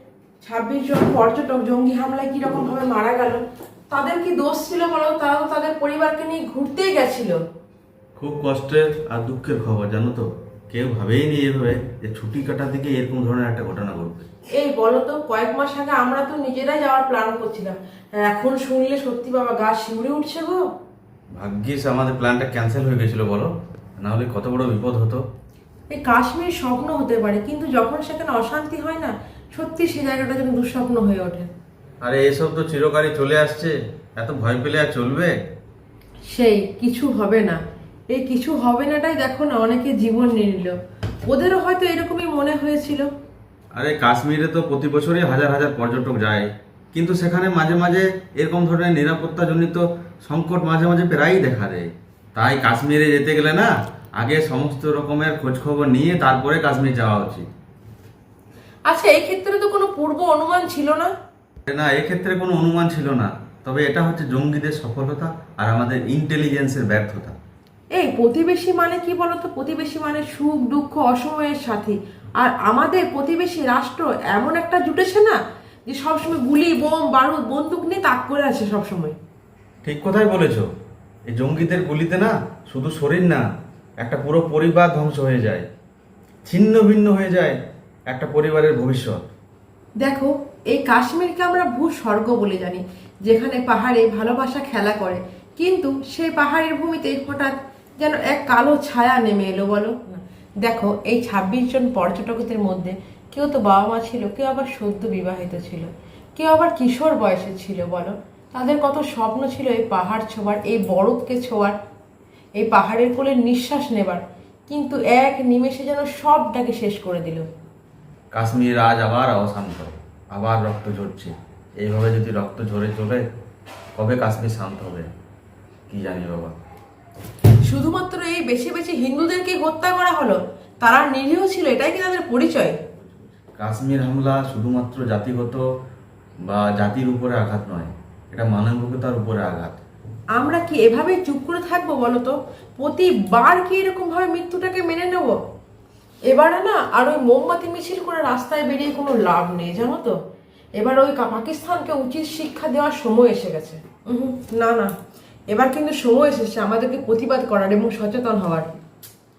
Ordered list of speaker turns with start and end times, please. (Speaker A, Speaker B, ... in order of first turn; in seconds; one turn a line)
Speaker A: 0.4-7.4
Speaker B: 8.2-14.3
Speaker A: 14.5-20.6
Speaker B: 21.4-25.2
Speaker A: 25.9-31.5
Speaker B: 32.0-35.4
Speaker A: 36.3-43.1
Speaker B: 43.7-57.5
Speaker A: 58.9-61.1
Speaker B: 61.7-67.3
Speaker A: 67.9-79.2
Speaker B: 79.8-80.7
Speaker B: 81.3-83.4
Speaker B: 84.0-85.7
Speaker B: 86.5-87.6
Speaker B: 88.1-89.2
Speaker A: 90.0-111.8
Speaker A: 112.6-117.5
Speaker B: 118.3-123.2
Speaker B: 124.0-125.1
Speaker B: 125.9-126.5
Speaker A: 127.6-132.8
Speaker B: 133.0-135.6
Speaker B: 136.4-139.8
Speaker A: 140.3-145.4
Speaker A: 146.3-150.2
Speaker A: 150.8-154.9
Speaker A: 155.5-158.8